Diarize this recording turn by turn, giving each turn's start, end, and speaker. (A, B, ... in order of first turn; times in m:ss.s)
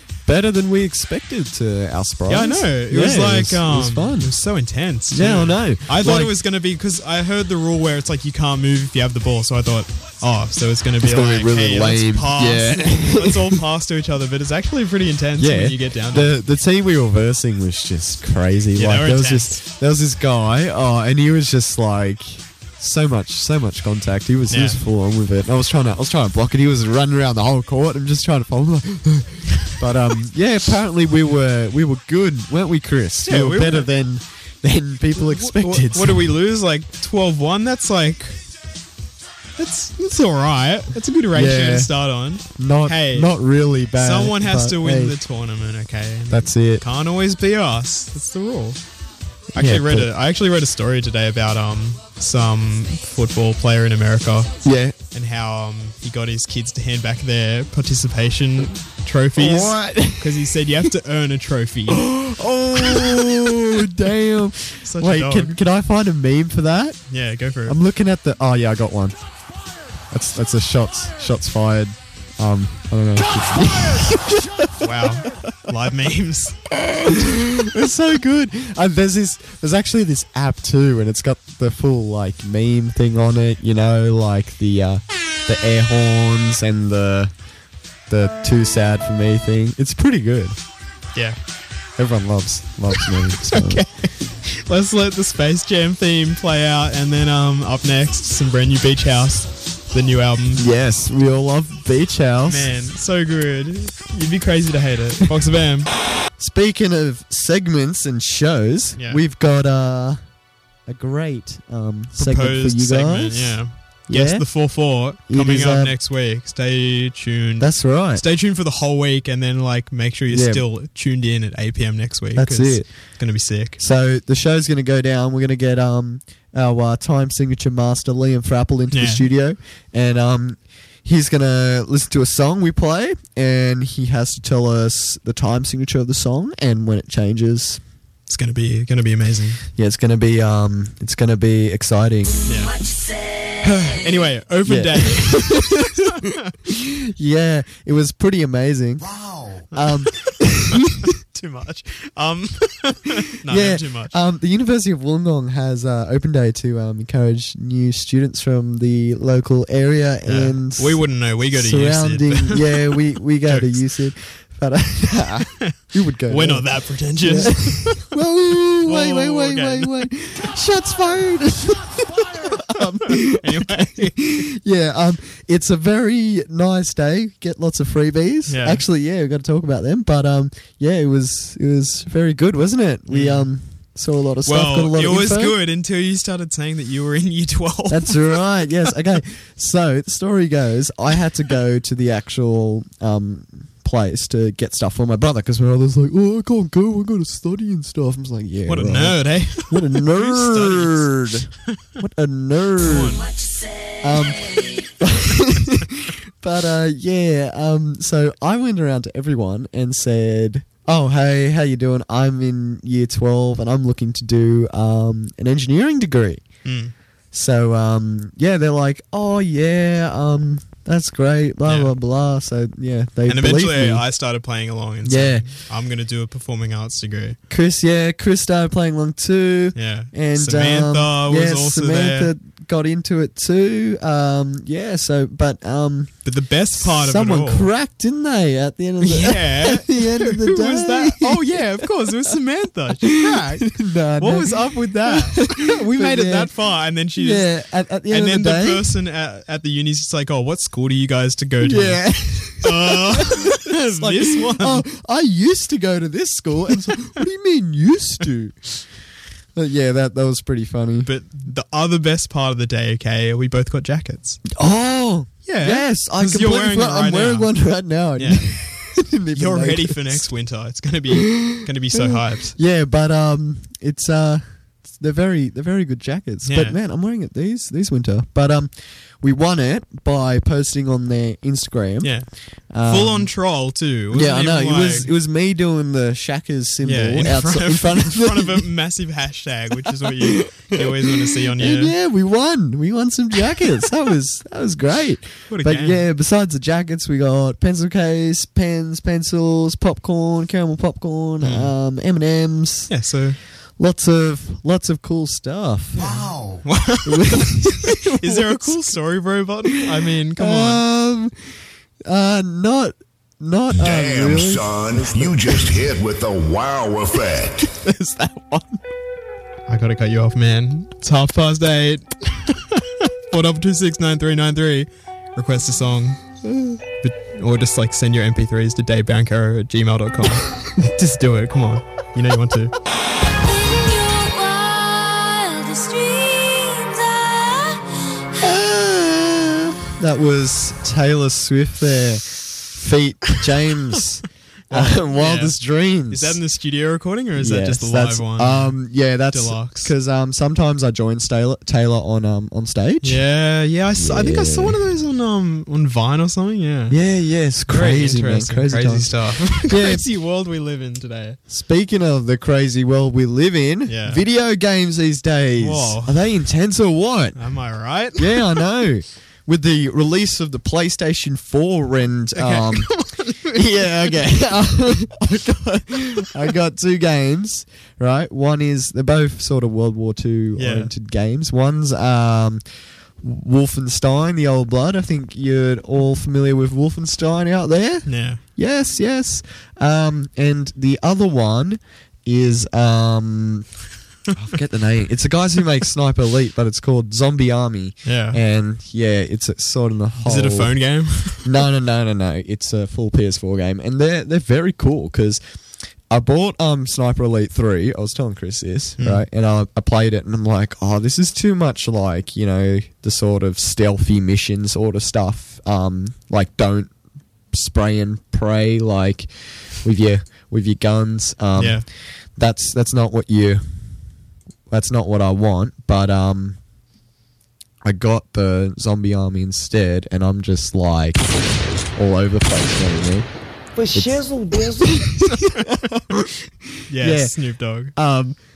0:00.2-0:04.4 A
0:02.3-0:16.4 B
0:05.1-0:06.4 A
0:11.0-0:13.6 A
0:15.4-0:36.3 A
0:18.8-0:19.6 B
0:24.5-0:24.8 B
0:33.2-0:33.9 B
0:35.2-0:38.4 B
0:39.6-0:43.3 B
0:41.3-0:41.9 A
0:42.6-0:45.2 A
0:44.0-0:48.8 B
0:46.3-0:46.8 A
0:49.5-0:54.5 B
0:49.6-0:50.1 A
0:54.6-0:55.0 A
0:55.1-1:02.1 B
0:59.4-1:00.8 A
1:01.9-1:07.0 A
1:02.8-1:03.6 B
1:04.8-1:05.6 B
1:07.1-1:07.8 B
1:07.7-1:09.2 A
1:10.1-1:15.7 A
1:14.8-1:17.4 B
1:17.0-1:27.3 A
1:28.1-1:30.6 A
1:32.0-1:33.8 A
1:32.9-1:40.7 B
1:40.6-1:42.7 A
1:42.5-1:45.9 B
1:46.4-1:50.2 A
1:49.0-1:49.2 B
1:50.9-1:54.5 A
1:52.1-2:03.8 B
1:55.3-1:56.0 A
1:57.6-1:58.2 A
2:00.3-2:00.6 A
2:02.4-2:02.9 A
2:03.8-2:17.8 A
2:08.9-2:09.3 B
2:18.3-2:19.6 B
2:19.8-2:22.4 A
2:22.4-2:22.8 B
2:23.6-2:26.5 B
2:24.6-2:26.1 A
2:26.7-2:31.0 A
2:29.7-2:30.1 B
2:30.7-2:34.2 B
2:33.5-3:05.6 A
2:40.3-2:43.8 B
2:45.4-2:45.7 B
2:46.3-2:48.2 B
2:48.8-2:50.1 B
2:52.5-2:54.5 B
2:58.5-2:58.8 B
3:03.1-3:03.5 B
3:04.4-3:09.0 B
3:07.9-3:23.3 A
3:18.7-3:21.8 B
3:22.9-3:23.2 B
3:24.0-3:36.4 A
3:36.6-3:36.9 B
3:37.3-3:44.1 A
3:41.6-3:41.9 B
3:43.3-3:47.4 B
3:45.0-3:45.5 A
3:47.5-3:56.2 A
3:49.8-3:52.3 B
3:56.2-3:57.7 B
3:56.7-4:01.9 A
3:59.0-4:07.6 B
4:03.0-4:06.5 A
4:07.2-4:09.0 A
4:08.1-4:12.1 B
4:11.6-4:18.8 A
4:12.6-4:14.8 B
4:19.6-4:21.1 A
4:21.0-4:24.4 B
4:24.6-4:30.3 A
4:25.4-4:27.6 B
4:28.2-4:28.6 B
4:29.3-4:32.6 B
4:31.1-4:42.2 A
4:36.4-4:36.8 B
4:42.0-4:42.3 B
4:42.7-4:43.3 A
4:42.8-4:45.1 B
4:44.1-4:48.7 A
4:46.8-4:51.9 B
4:50.0-5:02.9 A
4:55.5-4:56.1 B
5:01.4-5:01.8 B
5:02.9-5:03.4 B
5:03.8-5:06.4 A
5:06.1-5:10.8 B
5:07.0-5:09.0 A
5:09.7-5:11.3 A
5:12.1-5:15.8 A
5:13.7-5:17.7 C
5:17.7-5:18.8 A
5:19.7-5:26.3 B
5:27.0-5:32.7 B
5:33.7-5:38.0 D
5:38.4-5:46.4 A
5:44.7-5:45.6 B
5:46.1-5:49.9 B
5:47.4-5:53.2 A
5:53.0-5:57.0 B
5:53.9-5:54.8 A
5:56.9-6:00.1 A
5:57.7-6:01.4 B
6:01.5-6:07.5 A
6:03.9-6:04.2 B
6:05.6-6:06.2 B
6:07.4-6:08.6 B
6:08.2-6:22.6 A
6:12.4-6:14.2 B
6:20.6-6:20.9 B
6:23.2-6:33.7 A
6:28.1-6:28.4 B
6:34.3-6:40.7 A
6:38.0-6:38.4 B
6:40.2-6:41.6 B
6:41.4-6:45.4 A
6:46.1-6:56.9 A
6:49.0-6:49.2 B
6:57.5-6:59.3 A
6:59.8-7:03.6 A
7:01.6-7:01.8 B
7:04.7-7:06.6 A
7:07.8-7:11.3 A
7:12.0-7:13.3 A
7:13.8-7:15.0 D
7:13.9-7:16.3 A
7:15.4-7:15.6 B
7:16.9-7:17.9 B
7:16.9-7:17.4 A
7:18.0-7:18.4 A